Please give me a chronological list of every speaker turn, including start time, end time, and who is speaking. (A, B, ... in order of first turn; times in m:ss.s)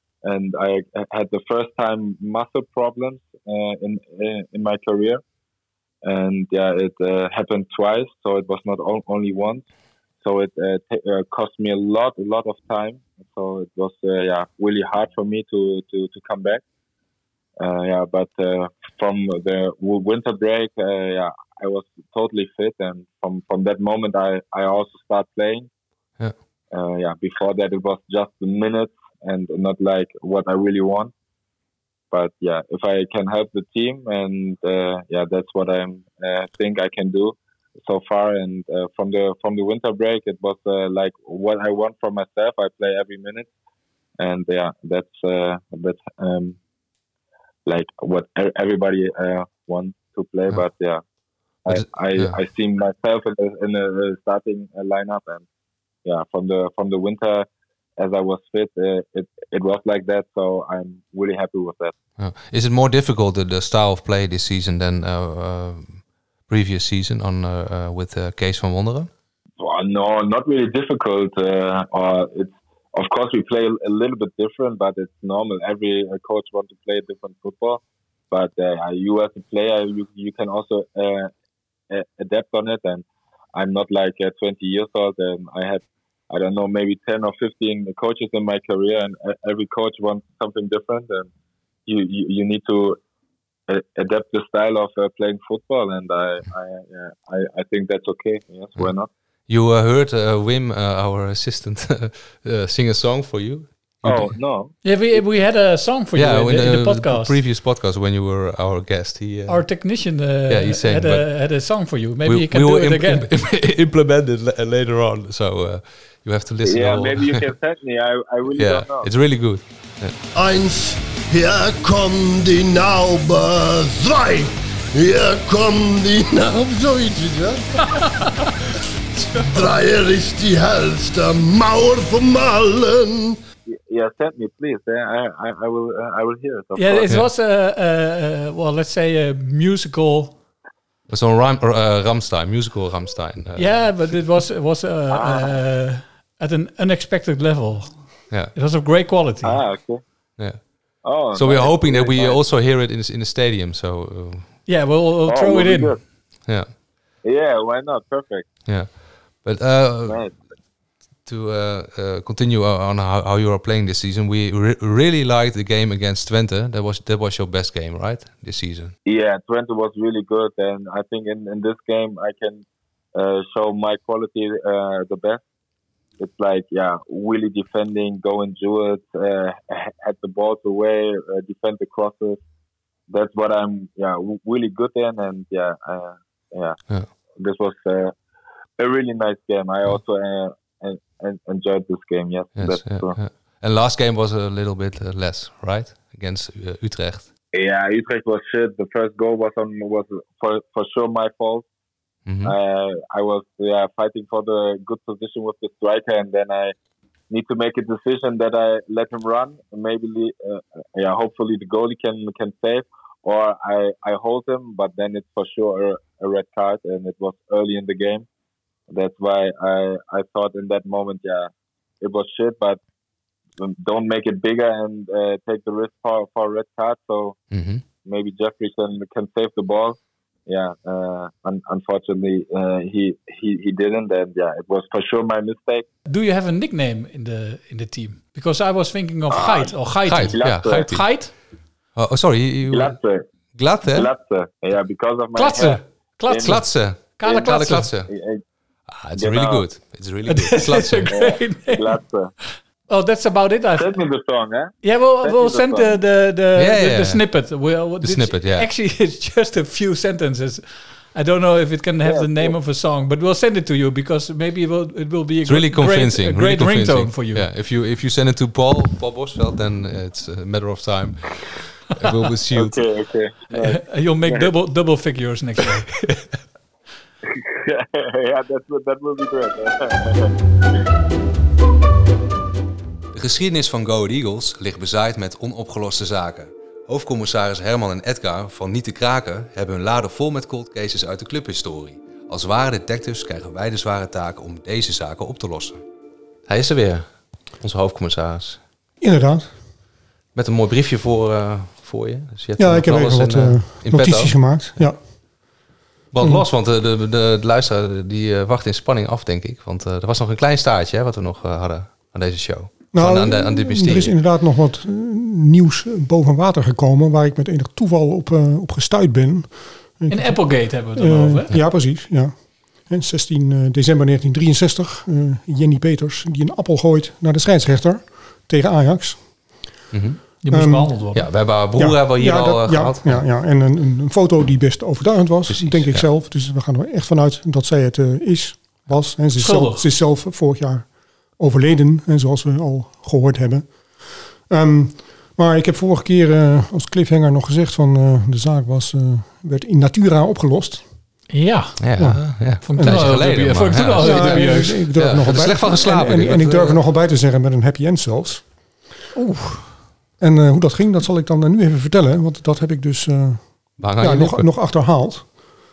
0:00.2-0:05.2 A
0:06.0-0:09.6 A
0:10.2-0:16.6 A
0:17.6-0:25.7 A
0:26.7-0:31.1 A
0:32.1-0:43.5 A
0:44.2-0:46.6 A
0:47.6-0:51.0 A
0:51.6-0:55.4 A
0:51.7-0:52.4 B
0:56.0-1:01.9 A
1:02.2-1:09.1 B
1:09.6-1:21.3 A
1:21.9-1:31.3 A
1:31.9-1:33.0 A
1:33.7-1:39.1 A
1:39.5-1:44.4 B
1:44.0-1:44.7 A
1:44.8-1:47.4 C
1:46.1-1:49.6 B
1:49.5-1:53.3 C
1:50.5-1:51.3 B
1:52.2-1:57.5 B
1:56.6-1:59.1 A
1:58.6-2:00.1 B
2:00.3-2:07.6 D
2:08.0-2:08.3 C
2:09.3-2:13.4 D
2:13.7-2:17.1 A
2:16.8-2:20.3 C
2:21.1-2:24.1 B
2:23.6-2:29.6 C
2:25.1-2:25.5 A
2:29.4-2:30.0 A
2:31.0-2:32.4 A
2:31.3-2:34.5 B
2:34.7-2:35.9 C
2:35.3-2:36.0 A
2:37.2-2:38.5 A
2:38.6-2:40.2 B
2:40.0-2:40.3 A
2:41.2-2:48.9 B
2:49.0-2:55.4 A
2:56.2-3:02.4 A
3:03.1-3:06.8 A
3:07.4-3:08.1 A
3:08.8-3:13.2 A
3:12.6-3:17.3 B
3:17.5-3:21.6 A
3:22.2-3:22.6 B
3:22.4-3:26.7 A
3:27.3-3:38.2 A
3:38.9-3:42.8 A
3:43.6-3:47.4 A
3:47.5-3:47.8 B
3:48.0-3:55.9 A
3:56.1-4:01.3 C
3:59.3-3:59.7 A
4:00.1-4:01.0 B
4:00.4-4:00.8 A
4:02.0-4:03.0 B
4:02.7-4:03.3 A
4:03.5-4:04.1 B
4:03.9-4:06.6 A
4:05.4-4:07.9 C
4:06.4-4:08.1 B
4:07.3-4:07.5 A
4:08.1-4:08.4 A
4:08.9-4:11.1 B
4:09.1-4:09.6 A
4:10.3-4:12.0 C
4:11.1-4:12.3 A
4:12.9-4:13.9 C
4:13.8-4:16.0 A
4:14.8-4:27.5 C
4:16.6-4:17.2 B
4:18.0-4:18.7 B
4:22.0-4:22.5 A
4:25.4-4:31.3 B
4:32.0-4:32.8 B
4:32.5-4:34.5 A
4:33.5-4:35.9 C
4:37.4-4:40.3 A
4:43.1-4:55.8 B
4:56.5-4:57.0 B
4:57.6-4:58.6 B
4:59.0-4:59.5 E
5:00.3-5:04.8 B
5:02.6-5:05.0 E
5:06.1-5:14.2 B
5:12.9-5:22.3 E
5:20.1-5:21.5 C
5:22.9-5:29.2 E
5:29.9-5:30.2 B
5:30.4-5:31.3 C
5:30.5-5:31.0 E
5:31.1-5:33.3 B
5:31.8-5:43.7 E
5:35.5-5:36.1 B
5:39.4-5:39.8 C
5:44.5-5:50.8 E
5:51.3-5:51.8 C
5:51.8-5:56.8 B
5:52.0-5:53.0 E
5:52.6-5:54.9 C
5:54.0-5:58.4 E
5:59.1-5:59.6 C
6:00.2-6:05.3 E
6:03.8-6:04.5 B